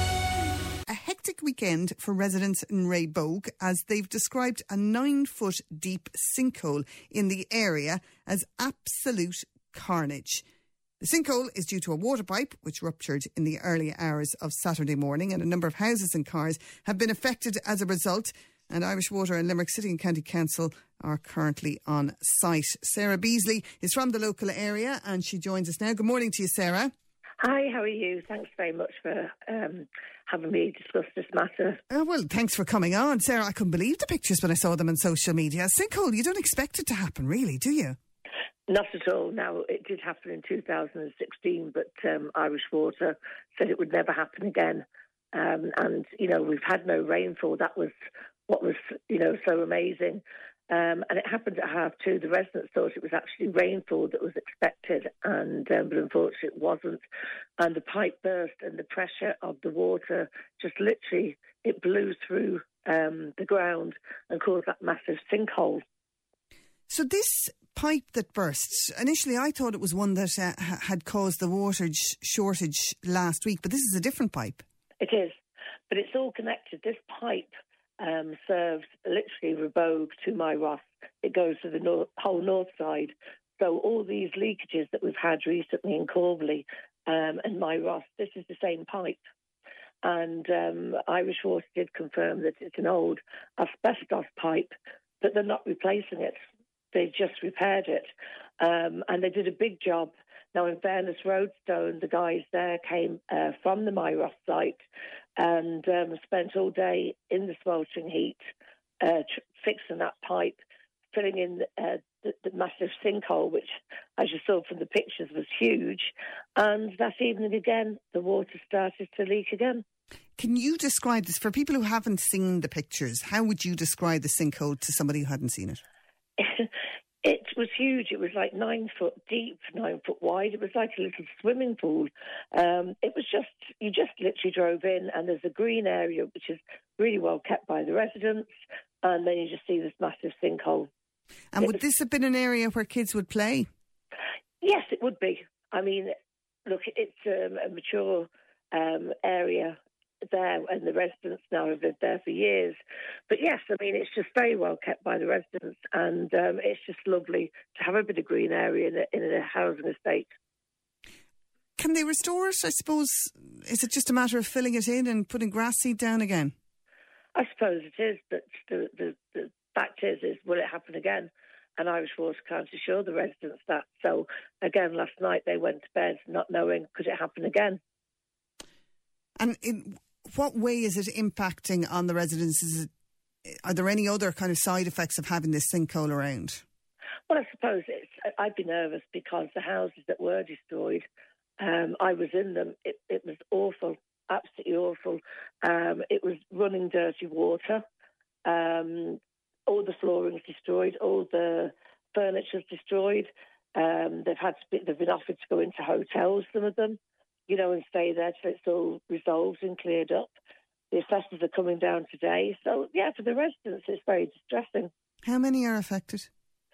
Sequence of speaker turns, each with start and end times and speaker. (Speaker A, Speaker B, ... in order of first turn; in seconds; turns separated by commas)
Speaker A: 0.9-10.4, Speaker A: 11.0-26.9, Speaker B: 27.4-31.8, Speaker A: 31.9-38.0, Speaker B: 38.7-47.9, Speaker B: 48.5-57.0, Speaker B: 57.6-65.8, Speaker A: 66.9-74.7, Speaker B: 75.0-75.3, Speaker B: 75.9-89.2, Speaker B: 90.0-96.4, Speaker B: 96.9-98.1, Speaker B: 98.6-104.8, Speaker B: 105.4-108.4, Speaker B: 109.0-110.6, Speaker B: 111.1-119.8, Speaker A: 120.4-125.8, Speaker B: 126.4-126.7, Speaker B: 127.2-138.5, Speaker B: 139.0-140.9, Speaker A: 141.5-143.7, Speaker B: 144.6-146.1, Speaker B: 146.7-149.8, Speaker B: 150.3-152.8, Speaker B: 153.3-160.3, Speaker A: 161.8-166.5, Speaker B: 167.3-177.8, Speaker A: 179.4-182.9, Speaker A: 183.5-186.6, Speaker B: 187.3-191.1, Speaker B: 191.6-197.8, Speaker B: 198.4-207.0, Speaker B: 207.5-210.3, Speaker B: 210.9-214.9, Speaker A: 215.2-216.3